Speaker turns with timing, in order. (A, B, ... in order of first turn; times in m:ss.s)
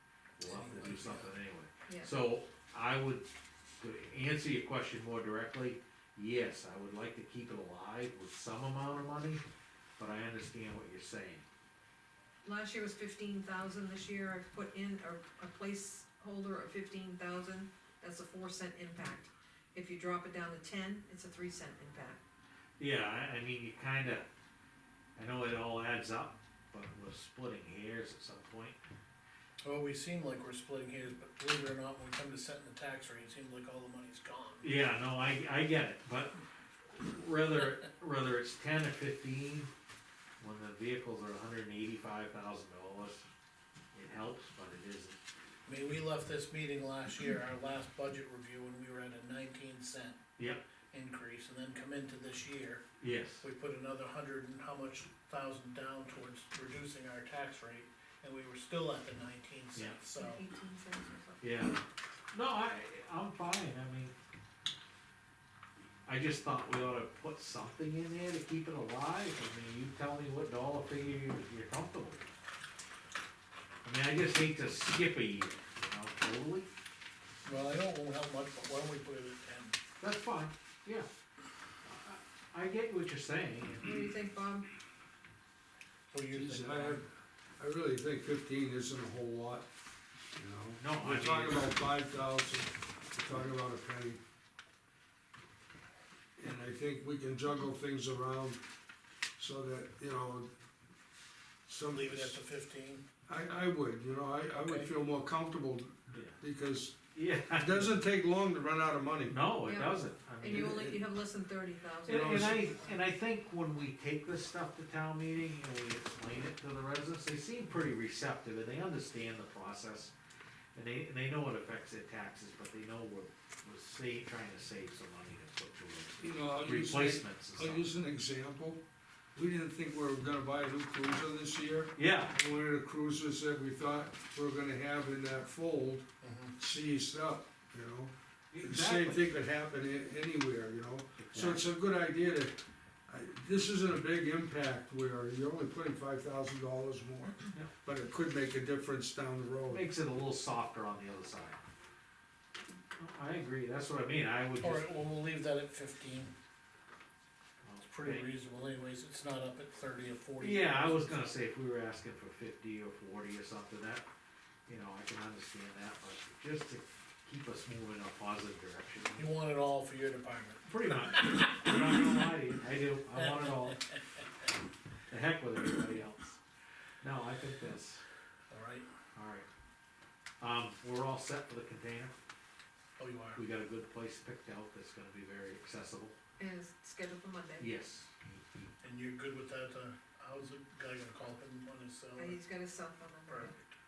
0:00.4-0:03.3 A
0:00.4-0:01.3 B
0:03.8-0:09.4 A
0:10.0-0:11.4 A
0:12.4-0:22.2 C
0:22.8-0:24.2 A
0:25.2-0:28.8 A
0:29.6-0:34.7 B
0:34.6-0:36.4 A
0:36.9-0:39.7 A
0:40.4-0:43.2 A
0:43.9-0:45.2 A
0:45.7-0:50.2 B
0:50.4-0:50.6 A
0:50.9-0:52.8 B
0:53.0-0:53.4 A
0:53.4-1:00.4 B
1:00.2-1:01.4 C
1:01.4-1:04.1 A
1:06.0-1:12.3 A
1:13.8-1:16.7 A
1:17.4-1:19.8 B
1:20.0-1:21.1 A
1:21.8-1:24.1 A
1:23.8-1:24.7 C
1:26.1-1:27.0 B
1:26.3-1:29.7 D
1:30.3-1:34.2 D
1:30.8-1:31.8 A
1:36.4-1:38.6 D
1:39.4-1:40.5 D
1:41.7-1:42.4 D
1:41.9-1:43.0 B
1:43.2-1:47.0 D
1:44.6-1:44.9 B
1:46.1-1:46.4 A
1:47.1-1:47.9 A
1:47.5-1:49.4 D
1:49.3-1:51.0 A
1:49.6-1:53.0 C
1:50.5-1:50.9 D
1:52.1-2:00.1 A
1:52.1-1:52.6 D
2:00.7-2:07.9 A
2:06.2-2:08.8 D
2:09.3-2:29.9 D
2:12.0-2:12.3 A
2:16.2-2:16.6 B
2:18.5-2:19.3 A
2:21.2-2:21.6 A
2:29.7-2:31.6 A
2:33.0-2:34.9 A
2:34.6-2:36.3 B
2:37.6-2:38.3 A
2:37.9-2:41.3 B
2:40.4-2:44.1 A
2:44.7-2:49.3 A
2:49.2-2:52.3 B
2:50.6-2:53.8 A
2:53.2-2:54.2 B
2:55.1-2:56.4 A
2:57.0-2:58.0 A
2:58.5-2:58.9 B
2:59.2-2:59.5 A
3:00.4-3:02.2 A
3:03.0-3:03.4 B
3:03.4-3:06.2 A
3:06.4-3:07.8 C
3:07.6-3:08.7 A
3:08.8-3:12.4 B
3:12.2-3:13.6 C
3:13.3-3:13.8 B